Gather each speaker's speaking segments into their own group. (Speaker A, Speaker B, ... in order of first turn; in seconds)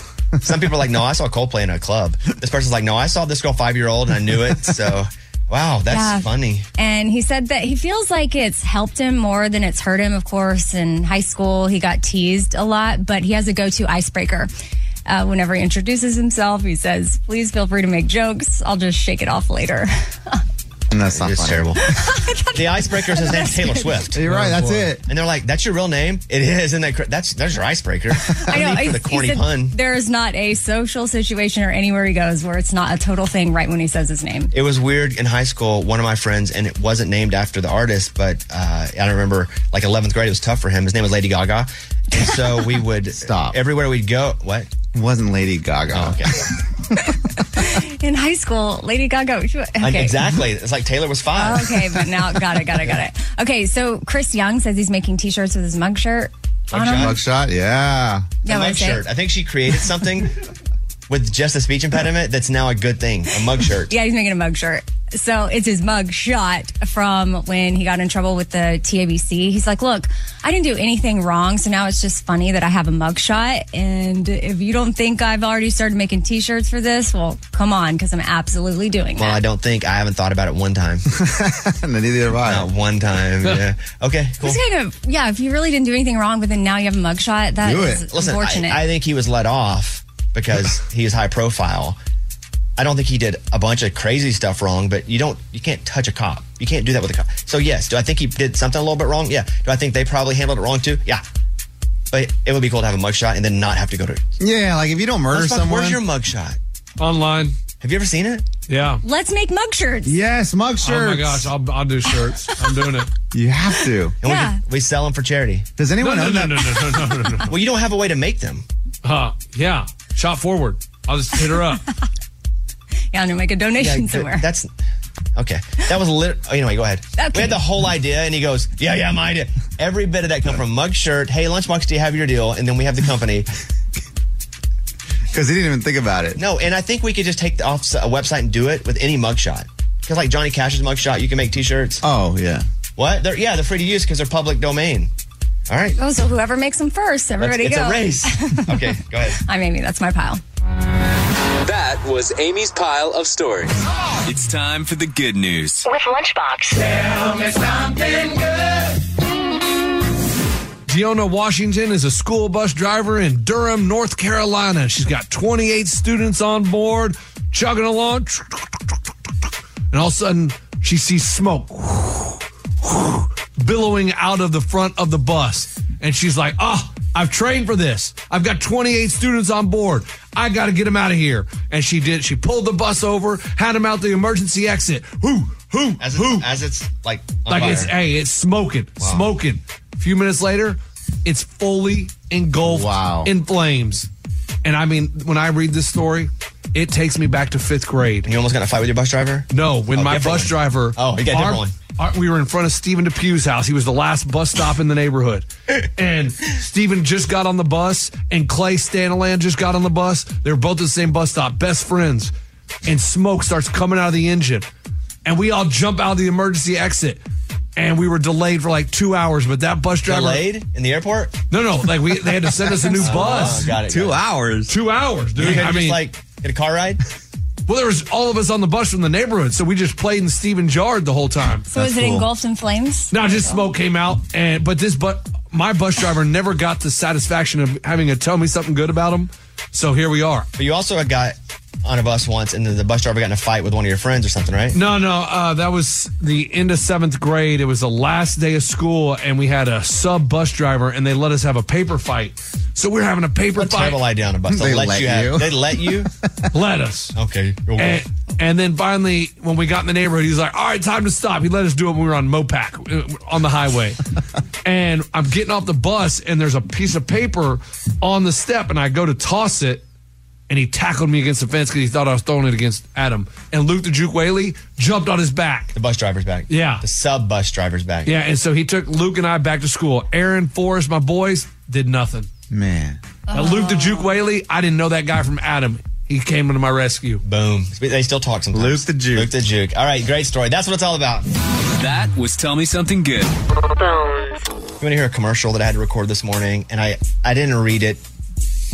Speaker A: 0.4-6.6, 21.2-21.8, 22.5-29.8, 34.5-44.7, 45.9-46.4, 49.8-51.9, 56.7-57.2, 58.5-60.3, 61.1-63.9, 79.2-81.1, 82.4-84.6, 88.1-92.0, 92.8-101.2, 102.1-104.2, 105.3-106.6, 107.8-108.4, 114.2-115.7, 117.5-118.6, 123.8-124.7, 125.4-133.5, 136.4-142.0, 143.0-145.1, 145.7-145.9, 147.4-149.4, 186.0-187.9, 189.0-189.3, 198.2-201.7, 220.0-221.4, 223.0-224.2, 225.4-227.0, 240.6-244.8, 253.6-256.1, 257.1-258.0, 275.7-278.1, 287.2-291.2, 294.8-298.0
Speaker B: 5.9-14.5, 15.1-20.4, 21.9-24.1, 28.4-34.5, 47.0-50.2, 51.4-57.1, 58.4-59.0, 63.9-79.4, 84.4-88.8, 109.0-110.2, 112.5-112.7, 114.2-114.6, 123.1-124.4, 127.2-127.6, 146.0-148.9, 149.4-150.4, 222.8-223.1, 231.7-233.6, 283.3-284.0
Speaker C: 20.9-21.8, 24.1-25.0, 43.2-43.6, 44.9-46.5, 56.9-58.3, 81.1-82.7, 87.6-88.0, 104.4-106.0, 110.0-111.5, 113.3-114.1, 115.8-116.9, 135.3-136.4, 142.0-142.7, 192.6-193.3, 223.2-224.7, 254.5-256.1, 282.5-283.0, 288.5-289.3
Speaker D: 107.0-107.5, 108.7-109.0, 110.8-113.1, 116.0-117.5, 119.0-121.8, 160.9-168.9, 169.9-186.4, 187.5-194.1, 194.6-198.3, 199.5-212.3, 212.9-214.7, 215.2-217.2, 217.8-220.4, 221.5-223.7, 224.7-226.0, 227.7-231.7, 233.1-240.5, 244.7-254.0, 256.5-257.1, 257.8-264.0, 264.6-269.8, 270.5-275.7, 276.5-276.8, 278.1-282.3, 283.3-287.2
Speaker E: 151.6-155.9, 291.8-293.3
Speaker F: 155.8-156.9, 293.6-294.4